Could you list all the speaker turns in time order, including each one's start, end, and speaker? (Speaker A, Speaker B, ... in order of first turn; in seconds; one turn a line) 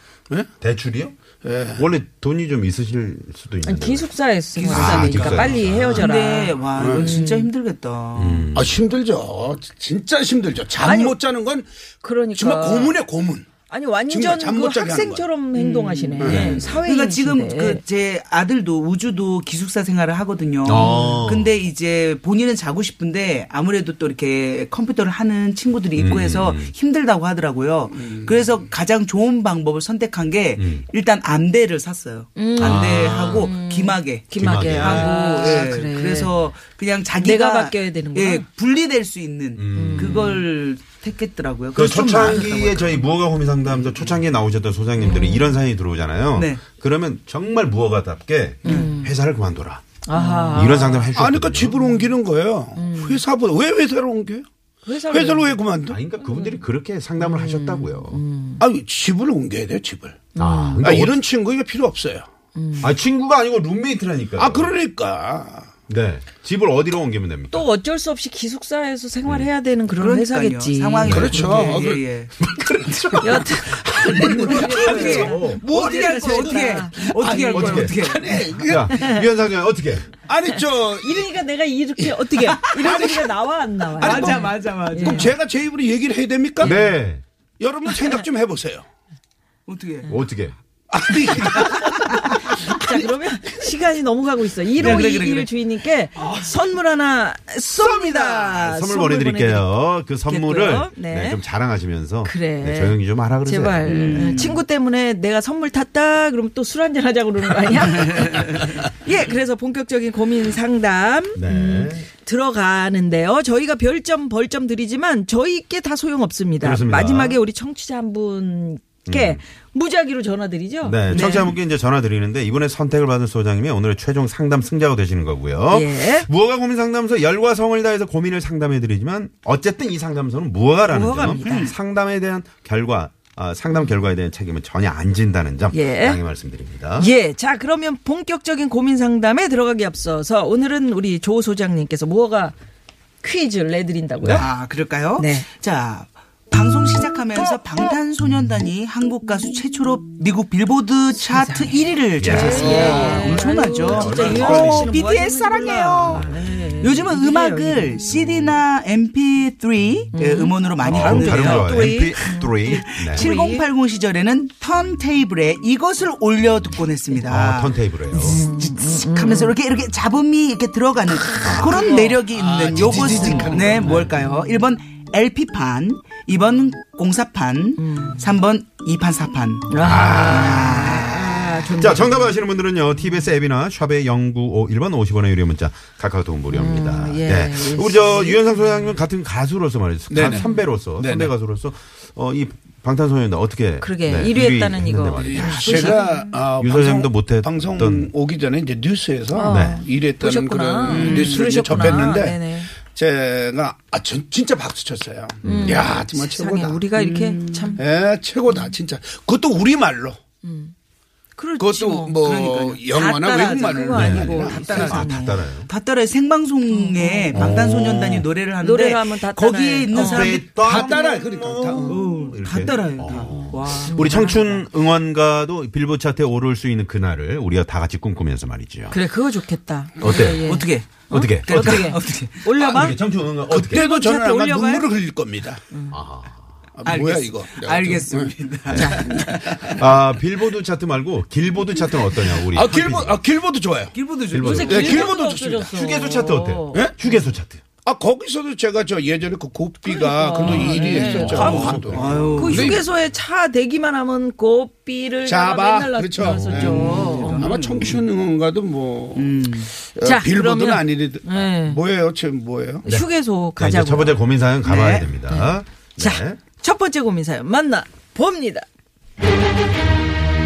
Speaker A: 0.6-1.1
Speaker B: 1.4-1.9
Speaker A: 1.7-4.1
Speaker C: 3.6-7.5
Speaker D: 4.6-8.5
Speaker A: 4.7-6.1
Speaker B: 6.8-7.1
Speaker A: 8.1-8.8
Speaker B: 8.5-11.7
Speaker C: 10.8-11.2
Speaker C: 12.0-12.9
Speaker B: 12.3-13.5
Speaker C: 13.7-17.8
Speaker B: 14.1-15.2
Speaker D: 15.5-43.1
Speaker B: 16.2-16.4
Speaker A: 16.2-16.8
Speaker A: 20.6-21.5
Speaker C: 20.7-21.2
Speaker A: 25.9-26.7
Speaker B: 28.0-28.3
Speaker A: 30.6-30.8
Speaker C: 32.4-36.3
Speaker A: 32.6-33.5
Speaker A: 34.4-35.1
Speaker C: 37.2-38.4
Speaker A: 39.6-40.4
Speaker C: 39.7-40.4
Speaker A: 41.7-49.8
Speaker C: 45.0-45.5
Speaker D: 46.3-46.6
Speaker D: 48.6-48.9
Speaker C: 48.6-49.1
Speaker C: 50.0-51.1
Speaker D: 50.1-50.8
Speaker A: 50.5-51.8
Speaker B: 51.1-54.5
Speaker C: 52.8-53.2
Speaker C: 54.8-55.6
Speaker B: 55.1-56.0
Speaker A: 55.9-58.2
Speaker C: 56.2-56.6
Speaker C: 57.2-58.6
Speaker B: 58.6-60.3
Speaker C: 60.3-60.8
Speaker A: 60.4-61.2
Speaker B: 60.8-62.2
Speaker C: 62.5-62.9
Speaker A: 62.8-64.7
Speaker B: 64.4-65.7
Speaker A: 65.9-67.6
Speaker C: 67.5-71.7
Speaker D: 70.0-72.3
Speaker A: 71.0-71.8
Speaker B: 71.0-79.1
Speaker A: 72.8-75.6
Speaker C: 73.2-77.0
Speaker D: 74.4-78.5
Speaker A: 77.5-77.9
Speaker A: 78.6-80.1
Speaker C: 78.9-79.3
Speaker B: 80.2-81.3
Speaker C: 80.5-85.3
Speaker B: 82.0-83.3
Speaker B: 84.0-86.8
Speaker D: 84.0-85.3
Speaker C: 86.6-87.0
Speaker A: 86.6-87.2
Speaker B: 87.6-88.8
Speaker D: 89.7-90.2
Speaker A: 90.0-90.5
Speaker B: 90.9-93.1
Speaker D: 91.5-91.8
Speaker C: 92.5-99.7
Speaker D: 94.8-95.5
Speaker B: 96.2-96.5
Speaker B: 97.8-98.5
Speaker A: 98.5-104.3
Speaker C: 100.3-101.4
Speaker C: 102.2-121.5
Speaker D: 103.8-104.6
Speaker D: 108.0-108.6
Speaker A: 111.3-112.0
Speaker A: 116.6-117.4
Speaker A: 119.0-119.4
Speaker A: 120.8-137.1
Speaker D: 121.1-121.5
Speaker C: 125.7-126.3
Speaker C: 130.9-131.7
Speaker D: 131.4-131.7
Speaker C: 135.7-136.2
Speaker C: 137.0-142.5
Speaker C: 143.2-144.5
Speaker D: 144.3-156.3
Speaker C: 145.2-145.5
Speaker C: 151.3-158.0
Speaker A: 152.2-155.0
Speaker B: 152.5-153.4
Speaker A: 156.1-156.4
Speaker D: 156.8-181.1
Speaker C: 160.1-163.6
Speaker A: 160.8-163.3
Speaker A: 167.3-168.4
Speaker C: 168.1-169.5
Speaker A: 171.4-171.9
Speaker C: 171.5-172.2
Speaker B: 172.3-174.0
Speaker A: 172.7-174.2
Speaker C: 173.2-173.6
Speaker C: 174.2-174.5
Speaker C: 177.8-178.2
Speaker C: 179.7-182.3
Speaker A: 179.8-196.0
Speaker C: 186.5-188.9
Speaker B: 190.1-191.3
Speaker C: 193.8-196.2
Speaker B: 195.2-206.8
Speaker D: 195.7-196.2
Speaker A: 196.6-198.1
Speaker C: 199.3-202.7
Speaker A: 199.5-199.8
Speaker D: 200.8-201.5
Speaker A: 205.4-205.9
Speaker C: 205.4-207.8
Speaker D: 206.9-207.8
Speaker B: 207.8-210.2
Speaker C: 208.5-208.7
Speaker C: 210.4-210.7
Speaker C: 211.4-212.2
Speaker B: 211.6-215.1
Speaker D: 212.2-212.8
Speaker C: 212.8-215.4
Speaker A: 213.9-215.7
Speaker D: 215.6-220.9
Speaker C: 216.7-217.5
Speaker A: 217.3-218.3
Speaker C: 218.6-220.4
Speaker A: 219.9-229.0
Speaker B: 220.5-222.0
Speaker D: 221.9-224.5
Speaker C: 223.1-224.6
Speaker C: 228.9-233.0
Speaker A: 230.0-230.4
Speaker D: 230.0-232.4
Speaker A: 231.1-231.9
Speaker A: 232.6-233.8
Speaker B: 232.6-232.9
Speaker B: 233.5-235.6
Speaker C: 233.7-234.9
Speaker C: 235.7-236.0
Speaker A: 235.9-236.4
Speaker B: 236.8-238.3
Speaker D: 236.8-239.9
Speaker A: 238.7-239.0
Speaker C: 238.7-239.1
Speaker B: 239.1-239.8
Speaker A: 239.8-243.2
Speaker B: 242.4-243.9
Speaker D: 243.9-245.1
Speaker A: 244.3-245.1
Speaker C: 244.4-246.8
Speaker B: 244.7-245.7
Speaker A: 245.7-247.6
Speaker B: 247.8-252.8
Speaker C: 249.8-257.5
Speaker A: 250.4-252.8
Speaker D: 250.5-252.8
Speaker B: 255.2-262.8
Speaker A: 256.2-257.0
Speaker D: 256.6-258.0
Speaker D: 259.1-259.7
Speaker C: 260.0-261.8
Speaker C: 262.8-264.2
Speaker A: 262.9-266.4
Speaker D: 264.6-265.1
Speaker C: 265.3-268.7